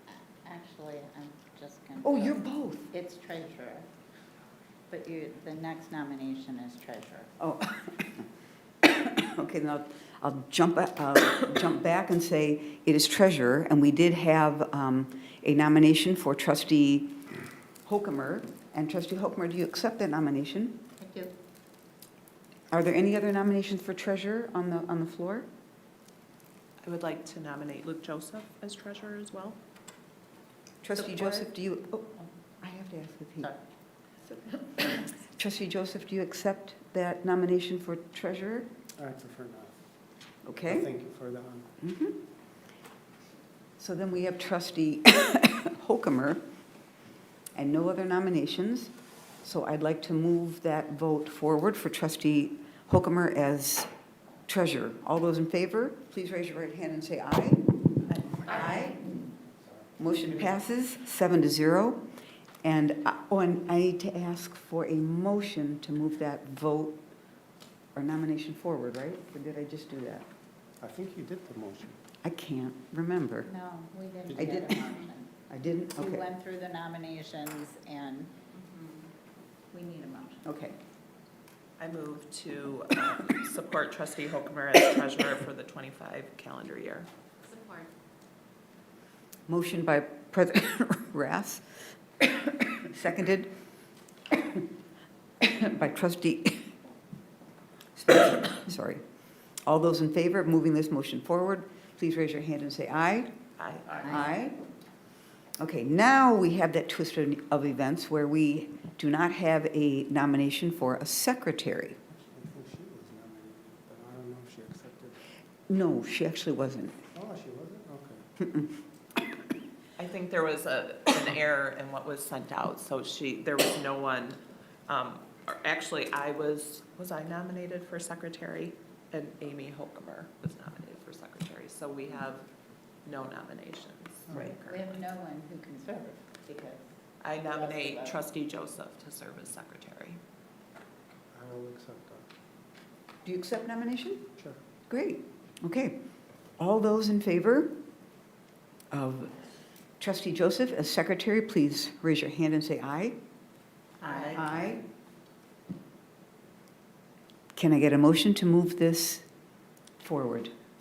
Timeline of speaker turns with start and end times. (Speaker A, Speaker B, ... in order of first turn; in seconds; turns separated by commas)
Speaker A: 0.4-3.9, Speaker B: 2.0-2.9, Speaker A: 4.9-7.3, Speaker B: 7.4-8.3, Speaker B: 8.8-17.3, Speaker B: 17.9-20.8, Speaker A: 21.0-21.3, Speaker B: 22.7-25.5, Speaker C: 26.8-29.6, Speaker B: 30.8-33.5, Speaker A: 31.0-31.5, Speaker B: 34.3-38.7, Speaker D: 39.0-39.8, Speaker B: 40.5-40.9, Speaker D: 40.6-41.7, Speaker B: 41.8-42.2, Speaker B: 43.8-46.4, Speaker B: 47.5-53.9, Speaker B: 54.5-57.7, Speaker B: 58.4-59.1, Speaker B: 60.0-62.0, Speaker B: 62.6-67.0, Speaker B: 68.0-70.3, Speaker D: 70.8-72.0, Speaker B: 72.2-73.5, Speaker A: 73.5-75.3, Speaker B: 74.3-74.9, Speaker B: 75.5-76.3, Speaker A: 76.0-78.3, Speaker C: 78.7-79.0, Speaker A: 79.7-80.5, Speaker B: 80.4-80.8, Speaker C: 81.8-87.1, Speaker A: 87.5-87.9, Speaker B: 89.5-91.7, Speaker B: 92.2-93.5, Speaker B: 94.3-94.6, Speaker B: 95.4-96.7, Speaker B: 98.0-99.0, Speaker B: 99.7-103.3, Speaker C: 103.6-104.2, Speaker B: 104.0-104.6, Speaker B: 105.6-112.0, Speaker D: 112.1-115.2, Speaker B: 115.7-117.0, Speaker D: 117.1-118.2, Speaker B: 118.4-118.7, Speaker C: 120.0-132.5, Speaker C: 133.1-135.0, Speaker A: 134.6-136.9, Speaker C: 137.2-140.2, Speaker A: 137.5-138.2, Speaker D: 141.3-142.3, Speaker B: 143.2-144.3, Speaker B: 144.9-146.0, Speaker B: 146.6-147.8, Speaker B: 148.9-149.3, Speaker B: 150.0-153.2, Speaker A: 154.0-154.5, Speaker B: 154.2-154.8, Speaker B: 157.6-159.2, Speaker B: 160.0-160.5